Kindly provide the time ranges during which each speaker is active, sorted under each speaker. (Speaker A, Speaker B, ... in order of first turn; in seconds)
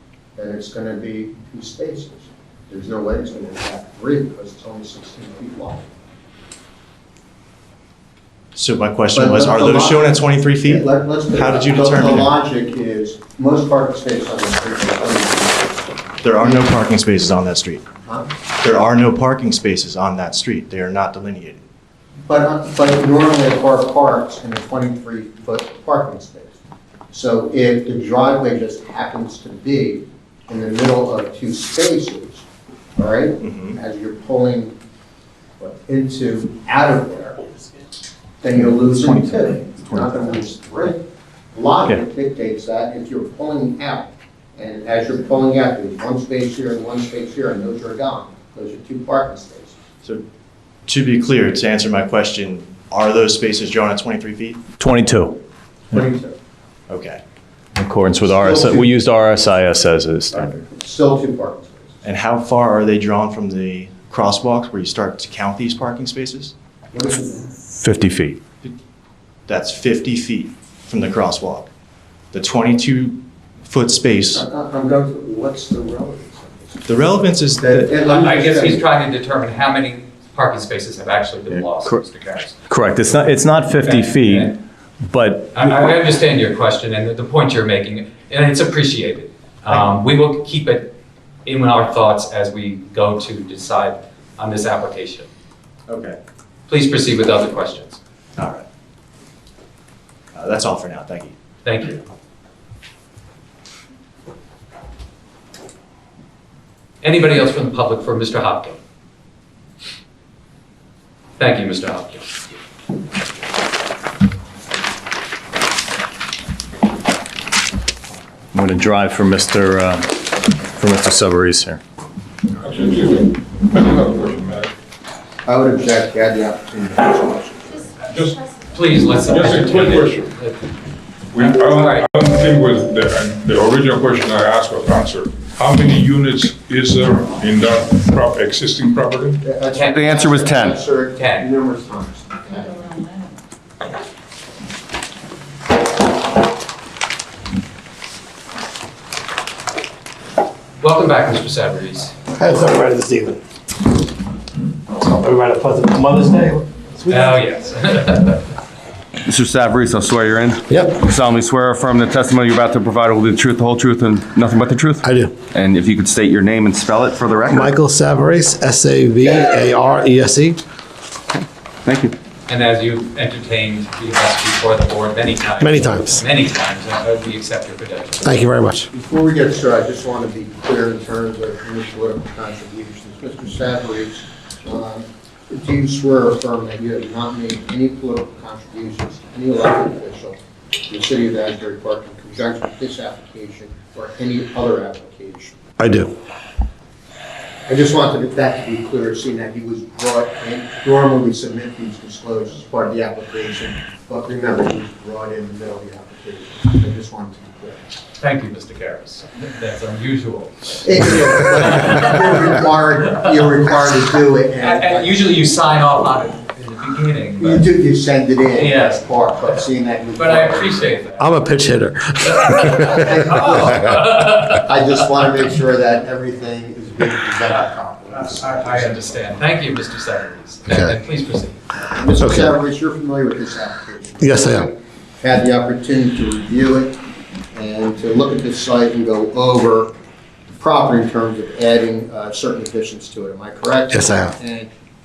Speaker A: 0.3-5.9, 9.1-16.7, 18.0-18.3, 22.3-26.6, 27.1-32.4, 33.0-34.7, 35.6-37.4, 38.4-41.0, 41.5-49.8, 55.9-56.4, 58.2-58.9, 60.3-62.0, 66.9-67.5, 74.3-76.9, 77.6-78.8, 125.4-127.9, 139.4-142.8, 178.9-190.4, 190.9-195.6, 197.7-207.8, 210.8-215.1, 217.4-221.0, 222.9-229.2, 231.9-237.0, 237.5-239.9, 240.5-244.7
Speaker B: 8.5-12.3, 16.2-17.9, 18.6-21.6, 50.9-54.6, 56.9-57.2, 62.0-66.5, 69.5-71.7, 72.3-74.4, 76.8-78.0, 95.9-96.2, 98.3-98.6, 100.3-101.3
Speaker C: 54.8-55.4, 57.8-60.6, 67.8-68.4, 82.7-84.5, 85.0-85.6, 118.5-121.8
Speaker D: 78.0-82.6, 83.8-84.6, 85.5-95.3, 96.7-98.0, 101.6-102.0, 107.0-108.8, 111.4-112.2, 128.7-130.7, 131.4-132.1, 139.7-140.0, 141.1-141.5, 150.8-152.1, 157.1-158.4, 172.5-178.3, 208.2-212.6, 214.6-217.7, 218.5-219.5, 220.2-221.3, 222.4-224.7, 228.1-231.8
Speaker E: 122.6-124.7, 128.1-128.4, 129.2-130.3, 131.3-139.4
Speaker F: 139.9-140.8, 159.2-167.7, 171.8-172.1
Speaker G: 152.3-153.4, 154.9-156.7, 160.7-161.0, 165.0-165.3, 167.5-170.6, 175.6-176.2, 178.2-178.9, 195.8-196.1, 221.2-223.9, 230.7-230.9, 232.2-232.6, 234.2-234.7, 243.9-244.3